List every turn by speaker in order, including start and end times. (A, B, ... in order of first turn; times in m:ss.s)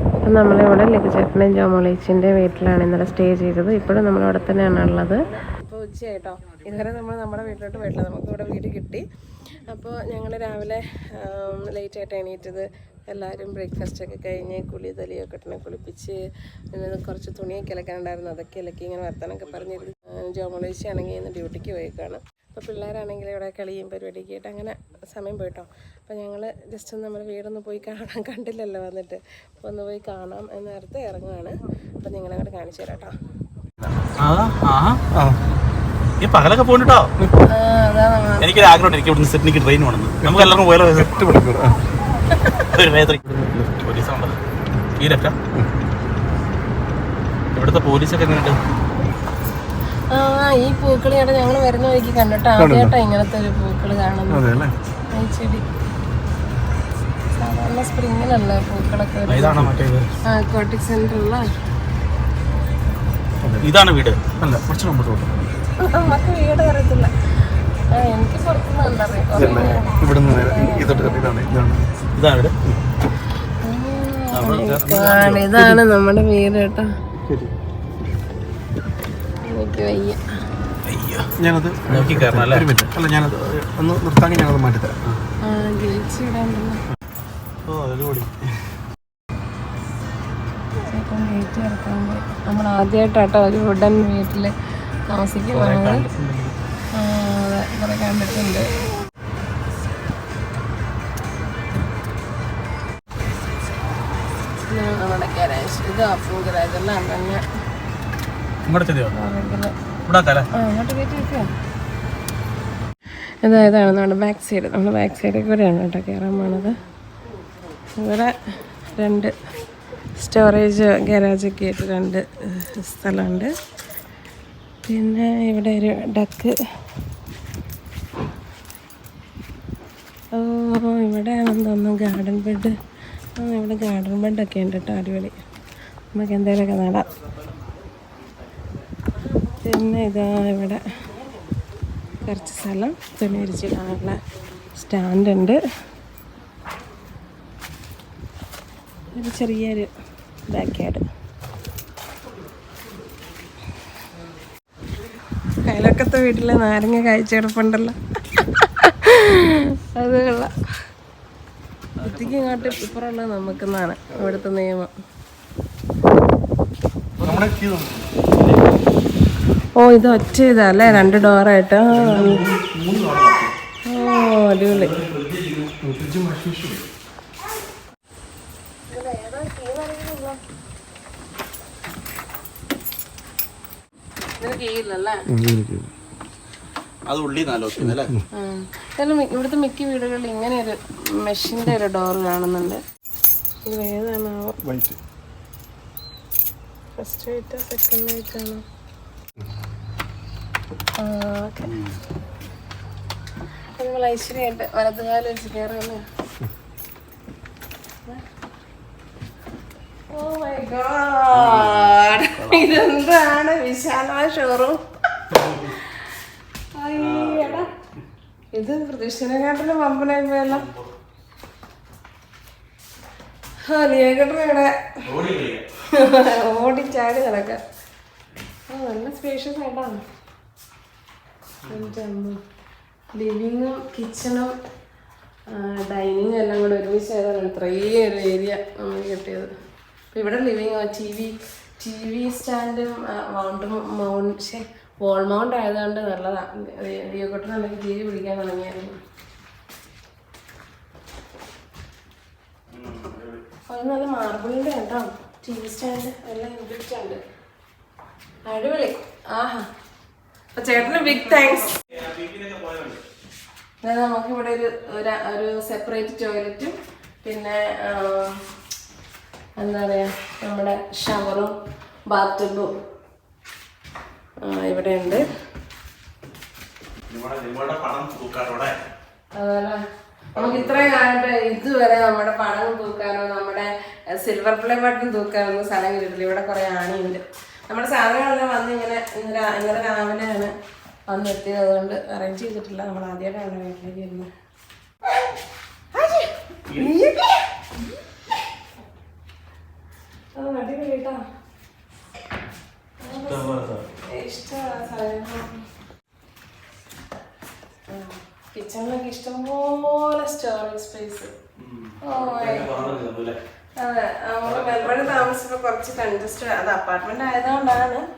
0:00.2-0:09.0 A
0:09.7-0:16.2 A
0:16.7-0:33.2 A
0:34.2-0:35.0 B
0:36.2-0:37.1 B
0:37.4-0:38.7 A
0:38.4-0:41.2 B
0:40.2-0:41.8 C
0:42.3-0:42.7 A
0:42.7-0:43.2 B
0:43.2-0:43.8 C
0:43.8-0:44.3 B
0:45.0-0:45.4 B
0:47.5-0:48.6 B
0:50.1-0:54.4 A
0:52.6-0:53.0 C
0:54.3-0:54.8 C
0:55.1-0:55.6 A
0:57.3-0:59.7 A
0:59.3-1:00.1 B
1:00.3-1:01.5 A
1:03.4-1:03.7 C
1:03.6-1:05.3 B
1:05.8-1:07.1 A
1:07.9-1:10.0 A
1:09.4-1:11.9 C
1:10.5-1:11.2 A
1:12.2-1:12.6 B
1:13.6-1:16.9 A
1:14.3-1:15.5 B
1:15.5-1:15.8 C
1:17.3-1:17.5 C
1:19.4-1:20.2 A
1:20.9-1:21.3 B
1:21.4-1:25.0 C
1:21.9-1:22.7 B
1:25.4-1:26.8 A
1:27.7-1:28.4 B
1:30.9-1:34.5 A
1:35.1-1:36.1 A
1:35.5-1:36.6 B
1:36.9-1:38.7 A
1:44.7-1:47.4 A
1:48.7-1:49.2 B
1:49.1-1:49.7 A
1:50.1-1:50.5 B
1:50.6-1:51.5 A
1:53.4-1:56.7 A
1:58.0-1:58.4 A
1:59.0-1:59.4 A
2:00.2-2:03.5 A
2:04.8-2:06.5 A
2:10.3-2:12.8 A
2:13.4-2:15.4 A
2:16.1-2:17.1 A
2:19.6-2:20.8 A
2:22.2-2:24.2 A
2:24.8-2:25.6 A
2:29.1-2:29.9 A
2:30.5-2:31.1 A
2:35.6-2:40.5 A
2:42.0-2:43.1 B
2:42.0-2:44.9 A
2:47.2-2:47.5 B
2:47.2-2:48.1 C
2:48.3-2:48.8 B
2:49.8-2:52.4 A
2:51.9-2:53.5 C
2:53.9-2:55.0 A
2:54.7-2:55.7 B
2:55.8-2:56.8 C
2:58.9-3:00.4 A
3:04.4-3:05.2 A
3:05.3-3:05.9 C
3:07.1-3:08.1 B
3:07.9-3:08.2 C
3:08.3-3:12.8 A
3:13.7-3:14.6 A
3:14.6-3:15.0 C
3:17.0-3:18.6 A
3:21.0-3:21.7 A
3:21.7-3:22.0 B
3:23.8-3:26.0 A
3:30.1-3:36.1 A
3:31.3-3:32.8 B
3:35.3-3:35.8 B
3:36.8-3:37.7 A
3:36.9-3:37.7 B
3:38.5-3:40.6 A
3:40.5-3:40.9 B
3:43.7-3:44.7 A
3:45.0-3:45.6 B
3:45.9-3:47.6 A
3:48.7-3:50.0 A
3:51.6-3:52.0 B
3:51.7-3:52.4 A
3:53.1-3:54.5 A
3:55.5-3:59.5 A
4:00.1-4:09.0 A
4:12.7-4:13.4 B
4:13.7-4:17.2 A
4:18.5-4:19.7 A
4:20.5-4:21.9 A
4:21.8-4:23.0 B
4:23.8-4:28.4 A
4:29.6-4:31.5 A
4:32.1-4:32.8 A
4:34.4-4:35.3 A
4:37.1-4:38.8 B
4:39.3-4:39.8 A
4:40.4-4:41.0 B
4:40.4-4:50.5 A
4:51.1-4:54.3 A
4:56.0-4:57.4 A
4:56.7-4:56.9 B
5:00.4-5:01.2 A
5:03.0-5:03.6 A
5:03.2-5:03.8 B
5:04.1-5:05.6 A
5:07.9-5:11.3 A
5:11.6-5:13.4 B
5:12.0-5:13.0 A
5:13.8-5:18.0 A
5:14.4-5:15.3 B